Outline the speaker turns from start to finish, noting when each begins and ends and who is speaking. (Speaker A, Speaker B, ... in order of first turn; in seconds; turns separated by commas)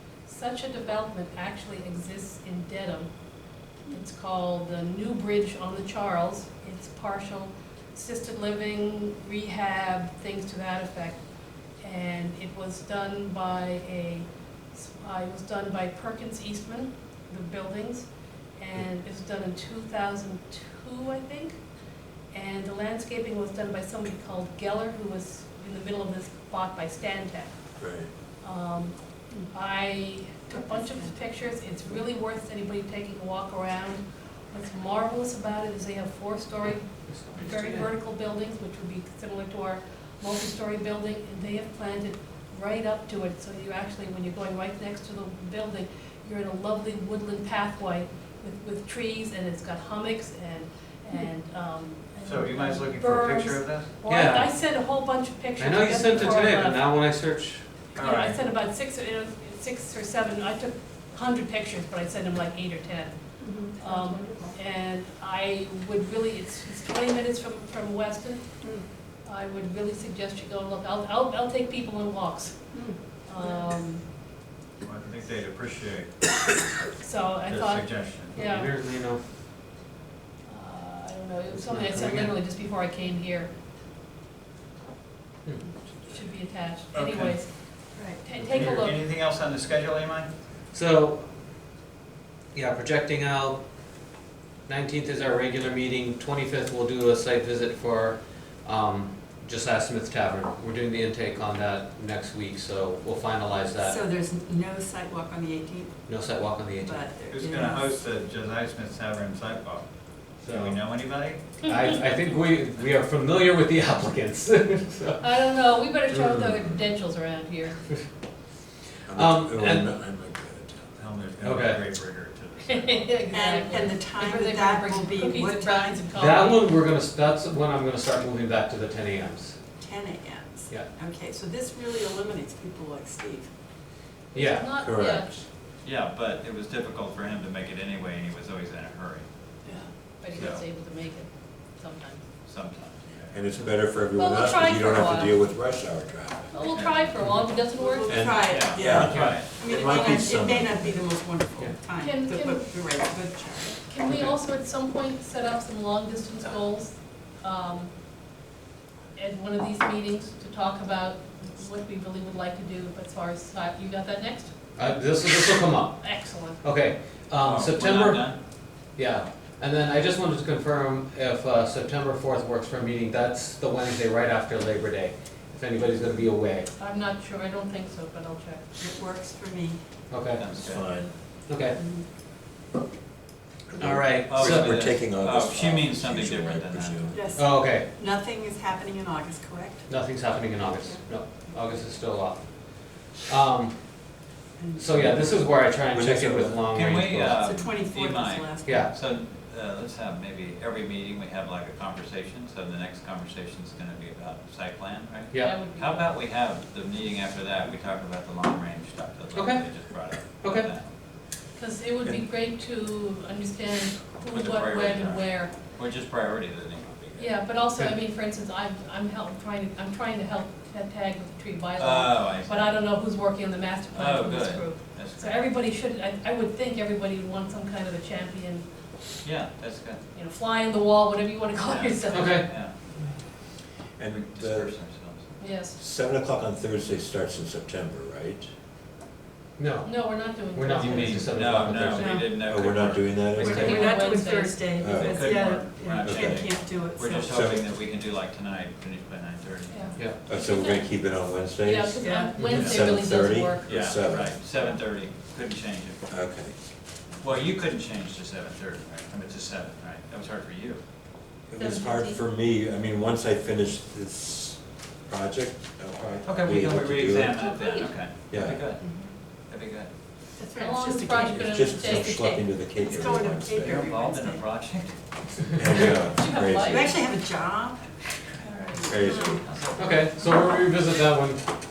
Speaker A: 0.3-3.1, Speaker A: 3.9-11.2, Speaker A: 11.8-21.6, Speaker A: 22.3-27.6, Speaker B: 27.8-28.1, Speaker A: 28.4-56.9, Speaker C: 30.6-31.1, Speaker D: 37.1-37.9, Speaker E: 52.2-53.9, Speaker D: 54.0-54.5, Speaker D: 55.6-57.7, Speaker E: 58.0-58.4, Speaker A: 58.0-63.1, Speaker C: 63.4-64.5, Speaker A: 63.8-68.6, Speaker A: 69.2-72.7, Speaker C: 72.7-73.0, Speaker A: 73.2-74.0, Speaker E: 74.8-76.1, Speaker A: 77.0-78.7, Speaker E: 77.5-78.4, Speaker D: 78.4-79.2, Speaker A: 80.5-83.5, Speaker D: 81.5-82.3, Speaker D: 85.5-85.7, Speaker A: 86.1-87.5, Speaker E: 86.9-87.4, Speaker C: 88.0-88.2, Speaker A: 88.1-89.0, Speaker E: 88.4-90.3, Speaker D: 88.5-88.8, Speaker D: 90.7-91.3, Speaker D: 92.5-93.6, Speaker D: 94.7-104.0, Speaker C: 103.8-106.1, Speaker D: 106.1-107.0, Speaker C: 106.7-107.9, Speaker E: 107.3-109.8, Speaker E: 110.4-112.2, Speaker D: 110.4-110.8, Speaker D: 111.6-115.2, Speaker A: 115.2-117.8, Speaker D: 116.1-116.5, Speaker B: 119.1-121.1, Speaker D: 119.1-119.9, Speaker E: 121.0-123.9, Speaker D: 121.4-121.8, Speaker A: 122.7-126.7, Speaker C: 123.3-126.1, Speaker D: 126.1-129.6, Speaker C: 129.8-133.5, Speaker D: 134.3-134.7, Speaker A: 134.3-135.3, Speaker B: 134.8-135.4, Speaker E: 135.8-139.3, Speaker C: 139.7-139.9, Speaker A: 140.2-142.2, Speaker E: 140.3-140.6, Speaker E: 142.5-143.4, Speaker B: 143.3-146.6, Speaker A: 144.2-145.4, Speaker A: 146.5-148.5, Speaker E: 146.6-147.1, Speaker C: 147.8-153.9, Speaker B: 148.1-151.0, Speaker E: 148.4-149.6, Speaker D: 148.8-149.4, Speaker A: 152.0-152.7, Speaker A: 153.9-157.9, Speaker D: 154.1-154.3, Speaker A: 159.2-164.5, Speaker D: 164.8-168.3, Speaker A: 166.0-166.6, Speaker E: 167.4-168.4, Speaker D: 168.9-176.7, Speaker A: 176.8-178.6, Speaker C: 178.8-179.8, Speaker D: 180.1-180.5, Speaker E: 180.3-180.8, Speaker B: 180.6-181.1, Speaker D: 181.5-181.8, Speaker C: 181.8-182.1, Speaker B: 183.7-187.4, Speaker D: 183.8-184.8, Speaker E: 184.3-187.3, Speaker C: 187.1-190.0, Speaker D: 187.4-187.9, Speaker D: 189.9-194.1, Speaker C: 190.7-191.5, Speaker C: 194.6-195.4, Speaker D: 194.8-197.4, Speaker B: 195.0-195.3, Speaker B: 195.9-196.7, Speaker E: 196.7-210.8, Speaker C: 197.4-198.9, Speaker D: 198.6-198.9, Speaker A: 205.4-206.1, Speaker D: 209.3-209.7, Speaker D: 210.4-210.7, Speaker A: 211.6-215.6, Speaker E: 214.3-217.4, Speaker A: 217.2-228.7, Speaker E: 221.8-222.8, Speaker E: 223.9-225.4, Speaker E: 229.2-230.0, Speaker A: 230.1-232.5, Speaker E: 231.6-232.7, Speaker D: 232.1-232.5, Speaker B: 234.0-234.7, Speaker E: 234.1-235.3, Speaker A: 235.4-235.8, Speaker B: 235.8-238.5, Speaker D: 239.6-242.2, Speaker A: 239.8-242.3, Speaker E: 240.8-243.8, Speaker B: 242.3-244.0, Speaker D: 243.4-243.9, Speaker C: 243.4-247.4, Speaker A: 243.5-244.6, Speaker B: 244.8-245.4, Speaker E: 244.9-250.0, Speaker B: 246.0-246.4, Speaker B: 247.3-247.7, Speaker A: 249.7-250.8, Speaker B: 250.3-254.4, Speaker A: 251.6-253.7, Speaker C: 252.0-252.4, Speaker D: 252.4-252.8, Speaker E: 253.7-256.0, Speaker B: 256.1-256.6, Speaker E: 257.2-260.8, Speaker B: 261.5-267.4, Speaker A: 261.6-262.2, Speaker E: 266.2-268.9, Speaker A: 267.4-267.9, Speaker B: 268.3-268.6, Speaker C: 268.8-269.1, Speaker E: 269.5-269.9, Speaker C: 270.4-271.4, Speaker A: 270.5-272.5, Speaker B: 271.1-273.9, Speaker C: 272.8-274.5, Speaker E: 273.1-274.9, Speaker B: 275.6-276.9, Speaker A: 276.1-277.0, Speaker C: 276.5-278.0, Speaker A: 278.4-279.4, Speaker B: 278.9-279.4, Speaker C: 278.9-279.3, Speaker E: 279.4-280.1, Speaker D: 279.8-281.5